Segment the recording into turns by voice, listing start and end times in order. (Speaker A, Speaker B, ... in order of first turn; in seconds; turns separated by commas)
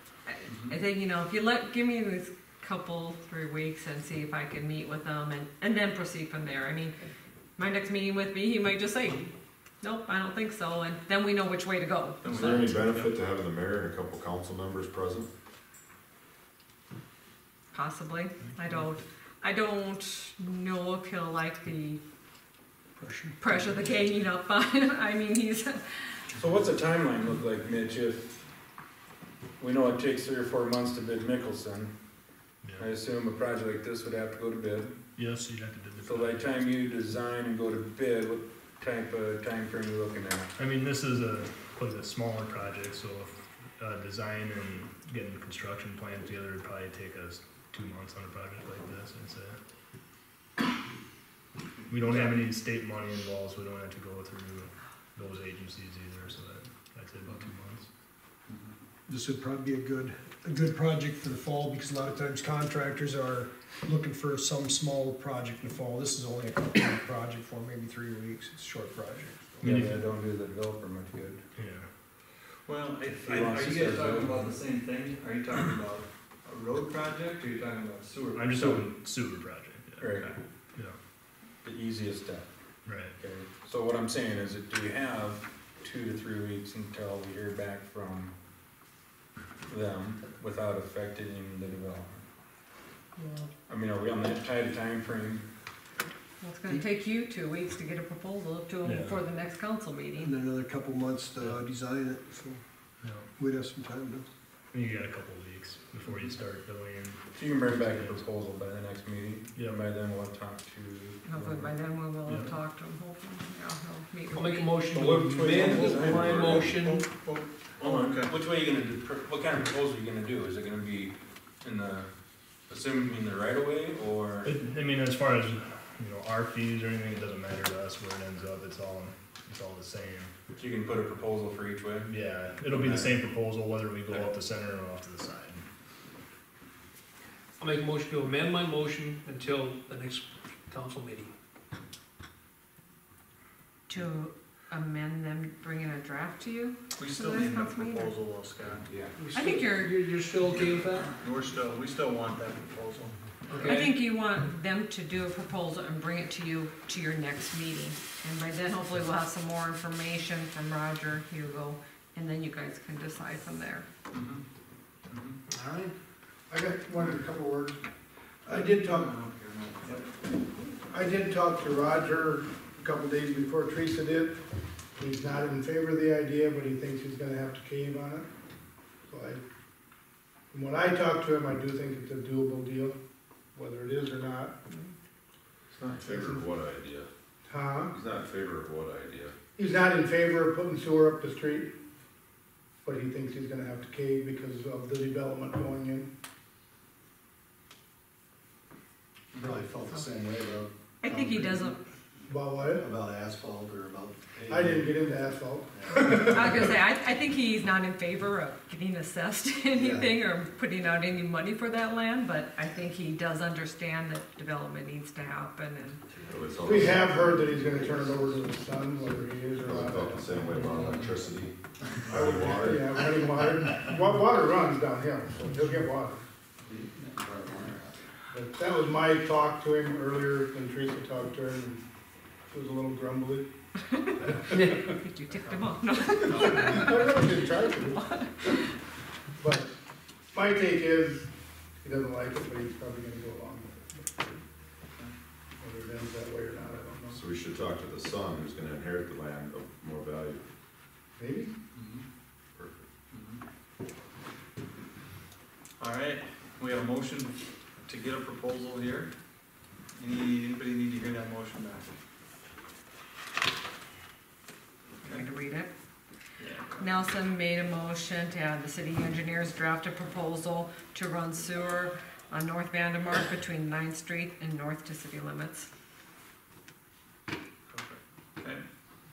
Speaker A: 0.2-7.0, Speaker B: 0.5-0.7, Speaker A: 7.6-12.7, Speaker C: 12.2-12.6, Speaker D: 12.3-15.3, Speaker A: 17.7-22.0, Speaker E: 23.0-23.4, Speaker A: 23.4-26.2, Speaker B: 26.3-28.4, Speaker B: 29.6-31.9, Speaker B: 32.8-34.9, Speaker F: 35.1-36.6, Speaker B: 36.0-40.5, Speaker F: 40.6-49.6, Speaker F: 51.9-57.9, Speaker E: 59.1-69.7, Speaker B: 69.6-71.4, Speaker F: 69.6-70.0, Speaker F: 71.5-71.9, Speaker C: 72.7-78.8, Speaker B: 73.1-74.4, Speaker F: 78.3-80.1, Speaker B: 80.0-80.3, Speaker C: 80.1-80.4, Speaker B: 81.6-82.5, Speaker F: 82.8-83.2, Speaker B: 83.2-88.3, Speaker B: 89.7-92.2, Speaker B: 93.7-95.5, Speaker A: 96.4-100.3, Speaker F: 98.8-99.2, Speaker E: 100.2-102.6, Speaker F: 103.0-103.3, Speaker E: 103.4-104.3, Speaker F: 104.7-108.2, Speaker B: 107.3-111.8, Speaker F: 109.5-109.8, Speaker A: 111.2-114.7, Speaker G: 114.3-117.0, Speaker B: 114.9-116.8, Speaker C: 115.6-118.3, Speaker B: 117.8-122.1, Speaker B: 122.7-124.5, Speaker F: 124.4-130.3, Speaker B: 130.6-132.1, Speaker F: 132.1-135.6, Speaker B: 132.7-133.2, Speaker G: 137.6-141.3, Speaker A: 143.9-148.1, Speaker C: 147.0-148.9, Speaker G: 149.2-151.1, Speaker A: 149.3-150.0, Speaker C: 150.5-153.1, Speaker G: 153.5-153.8, Speaker A: 153.6-163.8, Speaker G: 165.5-165.9, Speaker H: 166.5-167.3, Speaker E: 167.1-167.8, Speaker C: 168.5-170.1, Speaker H: 168.6-169.1, Speaker E: 168.8-169.0, Speaker H: 170.9-174.4, Speaker H: 175.0-178.3, Speaker H: 179.1-179.4, Speaker H: 180.5-183.0, Speaker H: 183.5-184.5, Speaker H: 186.0-186.4, Speaker D: 186.1-187.1, Speaker H: 187.4-187.9, Speaker D: 187.9-189.3, Speaker H: 189.6-191.7, Speaker H: 192.8-196.1, Speaker I: 199.4-200.6, Speaker A: 201.0-201.8, Speaker H: 202.2-202.9, Speaker I: 204.3-204.8, Speaker H: 204.5-206.6, Speaker A: 206.1-216.0, Speaker D: 216.3-216.9, Speaker H: 216.6-220.9, Speaker I: 216.9-217.4, Speaker D: 219.6-221.5, Speaker D: 222.1-222.9, Speaker H: 222.1-226.2, Speaker H: 228.3-231.8, Speaker H: 232.5-233.5, Speaker A: 233.9-238.7, Speaker H: 234.2-234.8, Speaker H: 236.3-238.1, Speaker H: 239.4-239.7, Speaker H: 240.3-241.3, Speaker H: 241.8-244.1, Speaker H: 245.6-247.2, Speaker D: 247.1-250.4, Speaker H: 251.2-251.5, Speaker C: 251.7-252.0, Speaker D: 252.6-252.8, Speaker C: 253.1-253.4, Speaker C: 255.8-257.4, Speaker C: 257.9-259.1, Speaker C: 259.9-261.9, Speaker A: 265.0-265.7, Speaker C: 266.4-266.9, Speaker A: 266.8-275.7, Speaker C: 277.7-278.6